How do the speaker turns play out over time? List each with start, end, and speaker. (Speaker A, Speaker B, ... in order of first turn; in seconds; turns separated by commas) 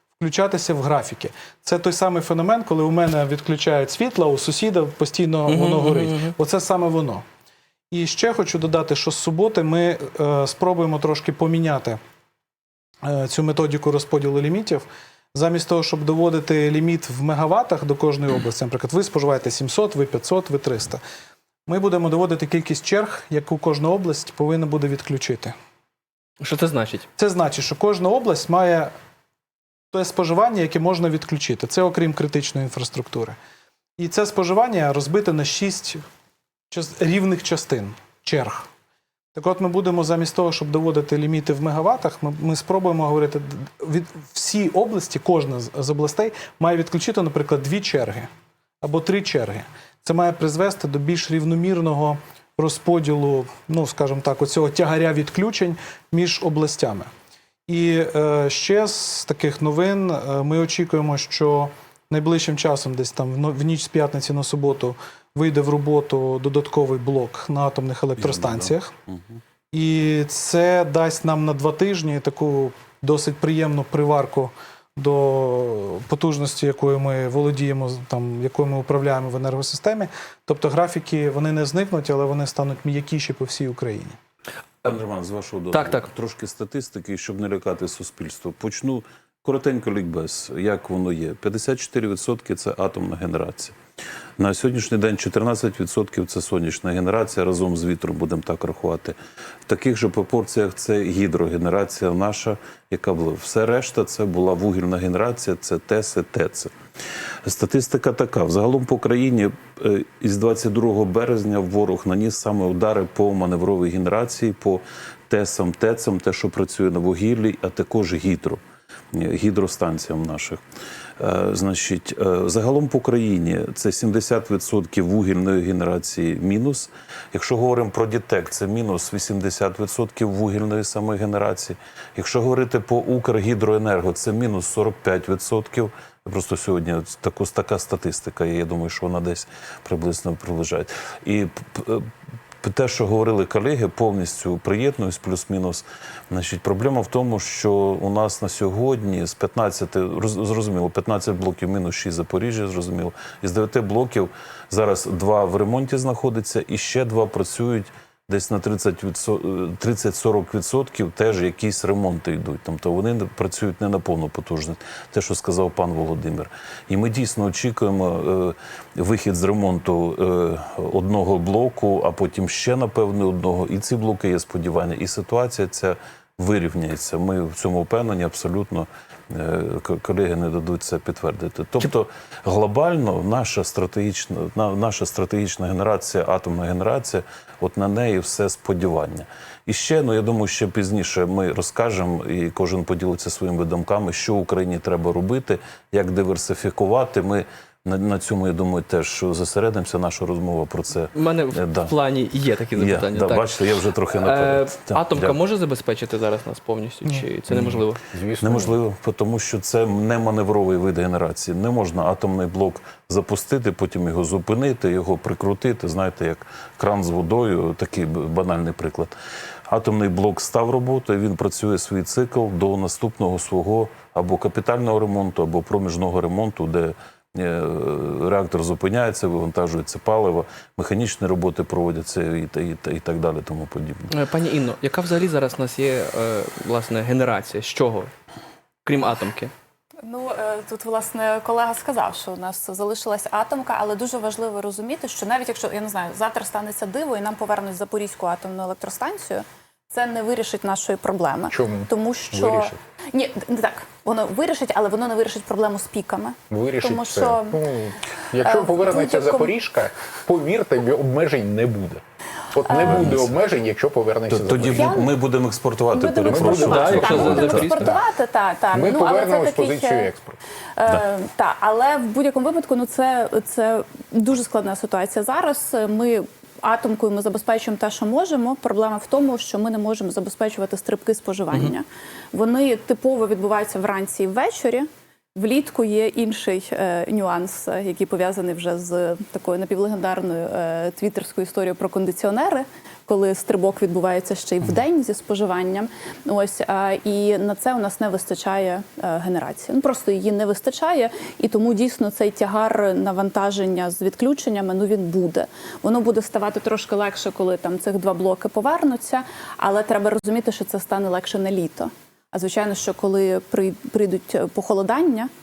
Speaker A: 0.2-7.2, Speaker B: 5.5-6.2, Speaker A: 7.9-12.0, Speaker A: 13.0-21.0, Speaker A: 21.7-25.5, Speaker B: 26.4-27.1, Speaker A: 27.2-28.9, Speaker A: 29.9-33.4, Speaker A: 34.0-36.0, Speaker A: 36.7-38.7, Speaker A: 39.3-48.3, Speaker A: 48.8-57.1, Speaker A: 57.7-68.9, Speaker C: 68.2-69.4, Speaker A: 69.7-84.2, Speaker C: 84.8-93.8, Speaker C: 94.4-106.7, Speaker C: 107.5-118.6, Speaker C: 119.1-120.6, Speaker C: 121.2-142.1, Speaker C: 142.6-202.0, Speaker B: 201.2-203.5, Speaker C: 202.7-205.4, Speaker B: 204.2-208.0, Speaker D: 207.5-208.7, Speaker C: 207.5-207.8, Speaker C: 208.4-219.1, Speaker C: 219.7-234.1, Speaker B: 234.1-238.1, Speaker B: 238.8-239.5, Speaker E: 240.0-257.6, Speaker D: 251.5-252.8, Speaker D: 256.5-262.0, Speaker E: 258.4-259.5, Speaker D: 262.5-265.0, Speaker C: 262.9-263.3, Speaker C: 264.3-267.9, Speaker E: 264.7-265.1, Speaker E: 265.9-270.1, Speaker D: 266.3-267.9, Speaker B: 266.6-267.9, Speaker D: 268.7-270.4, Speaker E: 270.8-284.9, Speaker E: 285.4-315.3